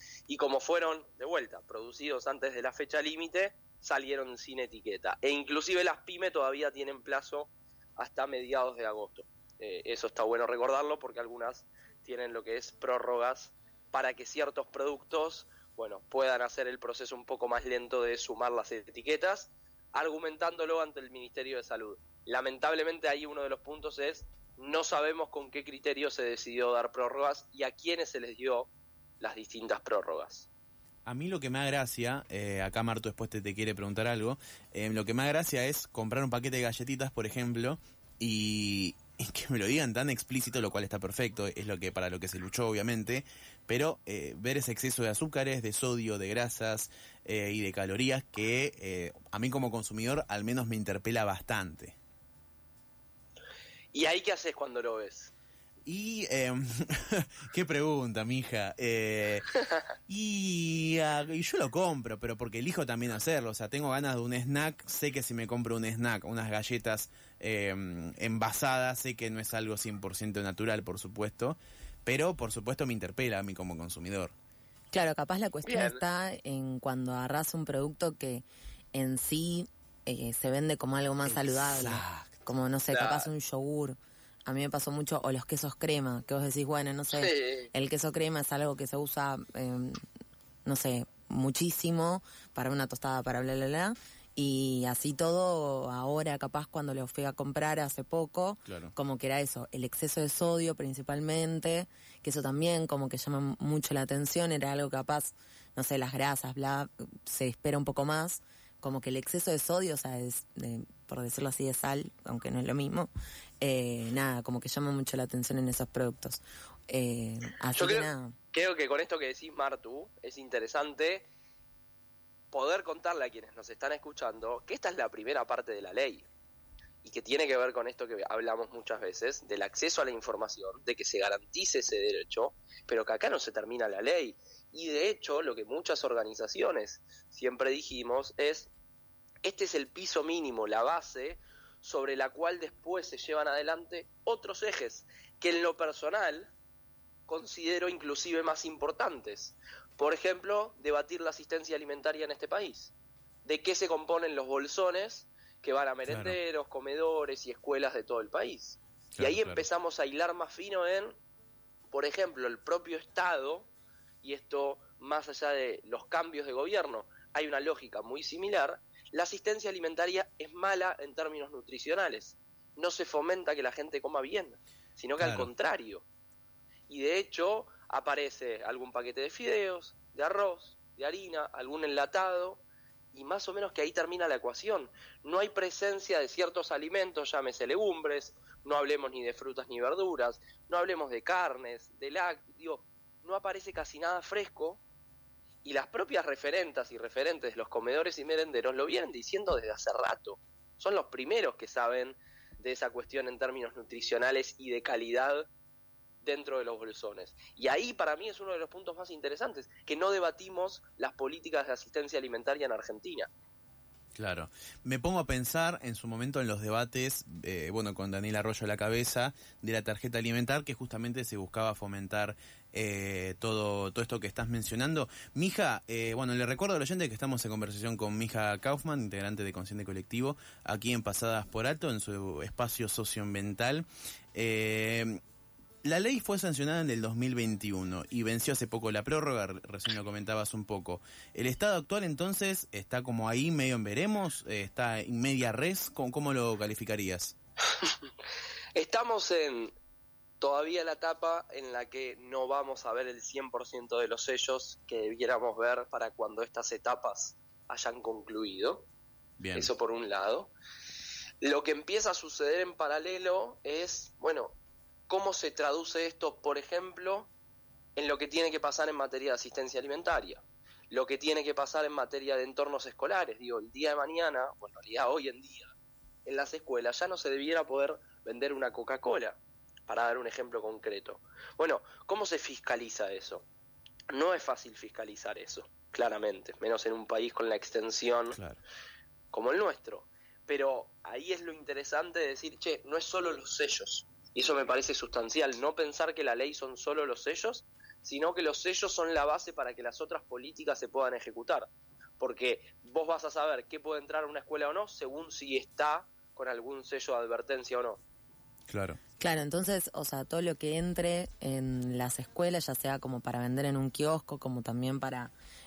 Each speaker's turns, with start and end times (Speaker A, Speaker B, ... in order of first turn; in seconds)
Speaker A: 0.3-28.7, 29.2-30.5, 53.9-55.3, 75.6-76.0, 82.9-83.3, 87.1-87.7, 117.8-121.3, 122.5-126.3, 127.0-138.7, 139.4-146.5, 147.3-152.9, 153.4-161.2, 161.9-163.7, 164.2-176.0, 176.9-182.6, 183.1-194.8, 195.6-205.5, 206.2-213.3, 248.7-249.7, 250.4-258.9, 259.5-260.5, 261.4-264.6, 265.1-267.3, 268.0-275.7, 276.2-283.4, 284.1-288.4, 289.3-308.0
Speaker B: 31.1-52.0, 55.8-59.5, 60.1-74.3, 81.3-82.3, 98.7-98.9, 156.1-156.4, 159.1-159.6, 175.2-175.5, 214.1-235.2, 235.8-247.3, 259.4-259.7, 288.3-288.6, 308.7-309.0
Speaker C: 74.9-90.0, 90.6-118.3, 309.2-315.3